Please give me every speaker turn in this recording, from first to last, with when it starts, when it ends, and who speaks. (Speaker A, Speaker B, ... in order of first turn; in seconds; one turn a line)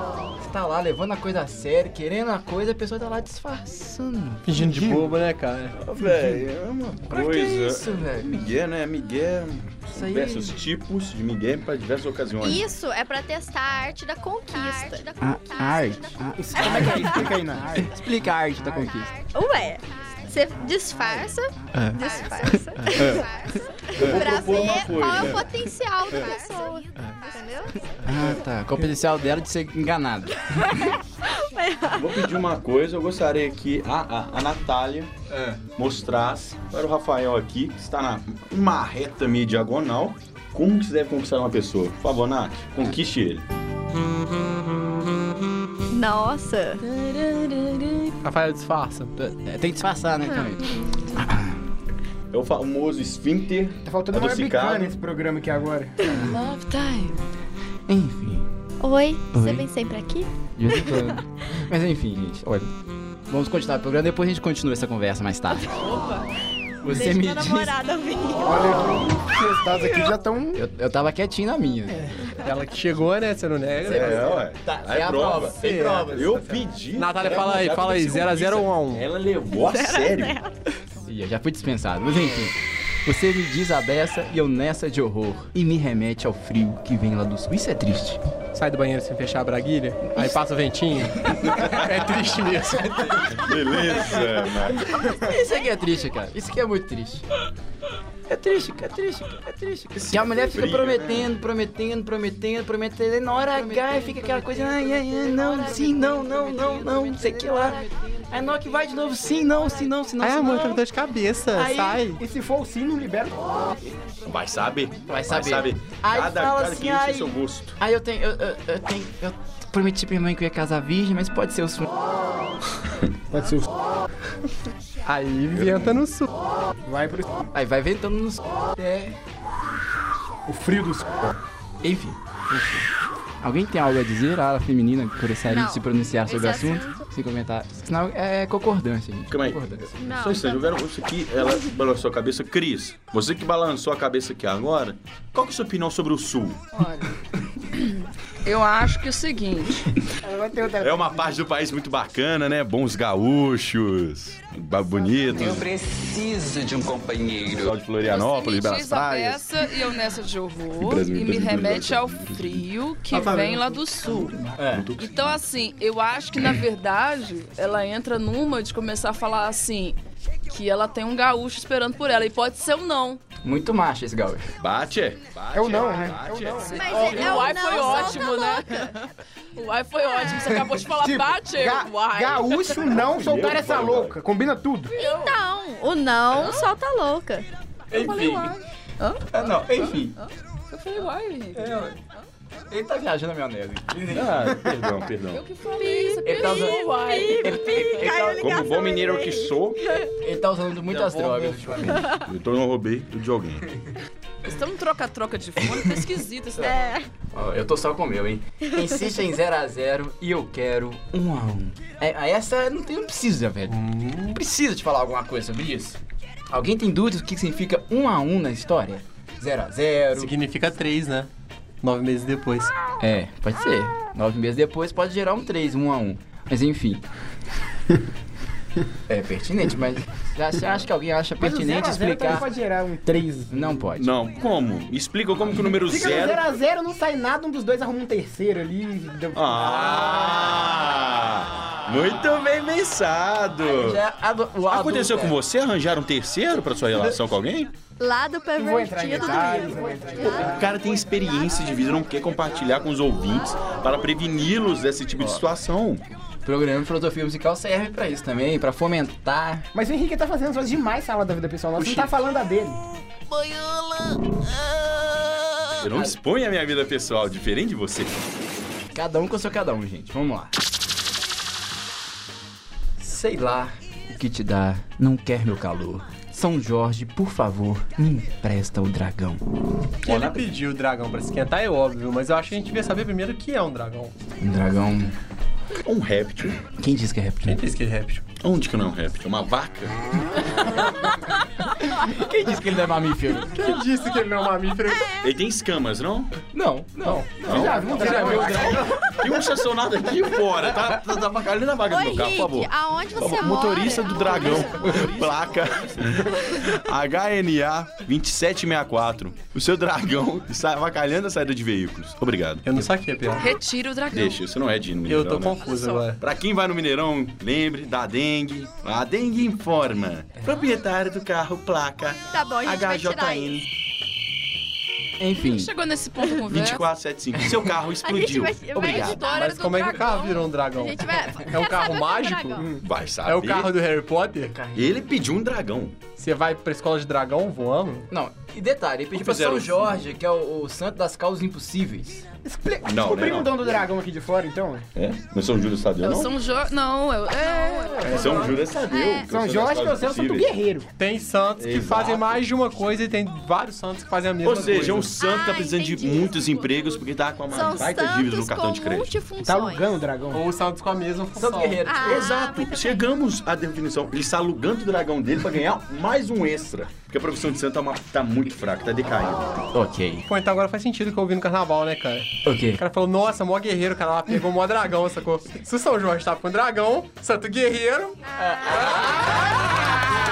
Speaker A: 0.4-4.9
Speaker B: 4.4-5.8
Speaker C: 5.8-12.6
Speaker A: 7.0-8.4
Speaker A: 9.9-10.6
Speaker D: 12.4-17.5
Speaker A: 15.2-19.1
Speaker E: 16.3-17.9
Speaker D: 19.2-27.9
Speaker A: 21.7-23.3
Speaker F: 22.0-22.3
Speaker C: 24.0-25.5
Speaker A: 28.0-30.9
Speaker D: 30.6-32.0
Speaker C: 31.9-35.1
Speaker A: 35.3-35.6
Speaker C: 35.8-43.5
Speaker D: 45.9-46.8
Speaker F: 46.9-47.8
Speaker B: 48.2-49.1
Speaker A: 49.2-51.6
Speaker C: 52.3-55.0
Speaker E: 53.8-56.0
Speaker A: 56.1-56.4
Speaker F: 56.1-57.1
Speaker A: 57.9-58.5
Speaker D: 58.8-61.2
Speaker A: 59.3-59.7
Speaker A: 60.5-62.7
Speaker A: 63.3-65.7
Speaker D: 65.6-66.2
Speaker A: 66.8-67.8
Speaker D: 66.8-68.9
Speaker E: 68.4-70.6
Speaker D: 69.7-70.2
Speaker A: 70.5-72.1
Speaker B: 72.4-74.4
Speaker A: 73.8-76.5
Speaker C: 73.8-80.4
Speaker B: 75.5-79.1
Speaker D: 79.5-80.5
Speaker A: 81.0-88.2
Speaker B: 88.5-93.2
Speaker A: 90.1-90.3
Speaker A: 92.8-94.3
Speaker C: 93.3-94.9
Speaker A: 94.9-97.2
Speaker A: 98.3-110.8
Speaker C: 99.9-101.3
Speaker F: 105.9-107.5
Speaker B: 110.2-112.2
Speaker A: 111.5-112.0
Speaker E: 112.2-113.4
Speaker C: 114.2-117.8
Speaker A: 115.1-121.9
Speaker E: 123.3-123.7
Speaker B: 125.0-126.3
Speaker C: 125.5-126.0
Speaker E: 126.8-127.4
Speaker A: 127.5-129.2
Speaker E: 130.5-131.4
Speaker A: 131.8-132.2
Speaker B: 132.5-132.8
Speaker A: 133.4-139.9
Speaker D: 135.4-137.0
Speaker C: 139.3-146.6
Speaker D: 140.0-140.7
Speaker F: 146.7-147.2
Speaker F: 147.7-149.8
Speaker E: 150.2-151.4
Speaker C: 150.8-155.7
Speaker G: 155.3-157.8
Speaker C: 157.6-159.5
Speaker F: 158.0-164.4
Speaker C: 160.8-162.6
Speaker B: 163.1-163.8
Speaker A: 164.6-164.9
Speaker C: 164.6-165.4
Speaker F: 165.0-170.0
Speaker F: 170.5-173.2
Speaker A: 173.4-174.5
Speaker C: 174.6-177.2
Speaker E: 175.5-177.1
Speaker D: 176.7-178.9
Speaker F: 176.7-182.9
Speaker E: 181.0-184.9
Speaker C: 182.8-184.2
Speaker F: 184.9-185.4
Speaker D: 184.9-187.4
Speaker A: 187.9-188.5
Speaker F: 187.9-189.2
Speaker A: 189.3-190.2
Speaker F: 189.8-191.8
Speaker A: 191.5-192.0
Speaker A: 192.7-194.6
Speaker C: 194.1-195.4
Speaker F: 195.3-198.1
Speaker D: 195.8-200.1
Speaker A: 196.2-198.4
Speaker C: 198.4-199.8
Speaker A: 200.2-202.1
Speaker C: 200.9-203.6
Speaker D: 201.9-202.2
Speaker F: 204.4-207.0
Speaker D: 206.6-207.1
Speaker A: 207.3-216.0
Speaker B: 213.7-214.4
Speaker A: 216.5-220.3
Speaker B: 220.1-221.3
Speaker B: 221.8-222.7
Speaker A: 223.0-227.0
Speaker A: 229.1-232.5
Speaker E: 231.4-233.6
Speaker A: 233.5-234.1
Speaker C: 233.9-236.4
Speaker A: 235.4-235.7
Speaker E: 235.8-240.6
Speaker C: 239.3-244.0
Speaker A: 243.6-245.4
Speaker C: 244.7-247.7
Speaker D: 248.0-250.5
Speaker E: 248.6-250.7
Speaker C: 250.3-256.0
Speaker A: 256.4-259.7
Speaker E: 259.7-262.8
Speaker B: 261.8-262.1
Speaker C: 265.8-268.2
Speaker A: 268.9-270.5
Speaker A: 273.0-279.4
Speaker B: 280.0-284.1
Speaker C: 280.1-280.5
Speaker A: 284.4-285.1
Speaker C: 285.8-286.6
Speaker A: 286.8-287.6
Speaker B: 287.4-288.2
Speaker C: 288.4-290.4
Speaker A: 291.9-293.5
Speaker B: 293.5-295.1
Speaker C: 295.2-296.3
Speaker A: 296.5-299.0
Speaker E: 297.4-298.9
Speaker C: 297.4-312.7
Speaker B: 298.0-298.4
Speaker D: 301.9-304.9
Speaker A: 304.0-306.3
Speaker B: 312.6-313.5
Speaker F: 313.4-314.4
Speaker C: 314.1-315.6
Speaker B: 315.1-316.2
Speaker F: 315.6-316.0
Speaker C: 316.2-323.6
Speaker D: 322.2-323.6
Speaker A: 325.2-325.7
Speaker F: 325.4-326.9
Speaker C: 326.4-329.1
Speaker D: 328.0-329.4
Speaker F: 328.8-330.5
Speaker B: 329.1-334.6
Speaker D: 330.7-332.7
Speaker C: 332.8-333.7
Speaker A: 334.5-334.9
Speaker C: 334.7-336.0
Speaker B: 336.2-338.1
Speaker A: 338.1-342.2
Speaker C: 339.1-340.0
Speaker E: 342.4-344.9
Speaker C: 342.8-343.8
Speaker C: 344.9-346.3
Speaker F: 346.0-348.6
Speaker B: 348.0-348.6
Speaker C: 348.0-350.5
Speaker D: 348.9-349.3
Speaker E: 349.3-350.9
Speaker B: 351.0-355.1
Speaker C: 351.6-352.4
Speaker C: 354.4-359.1
Speaker D: 355.2-360.0
Speaker E: 359.4-360.5
Speaker B: 360.3-361.9
Speaker A: 361.3-362.3
Speaker D: 361.8-363.0
Speaker C: 362.0-369.6
Speaker A: 369.7-370.2
Speaker B: 370.2-378.1
Speaker A: 372.4-372.8
Speaker A: 378.4-379.6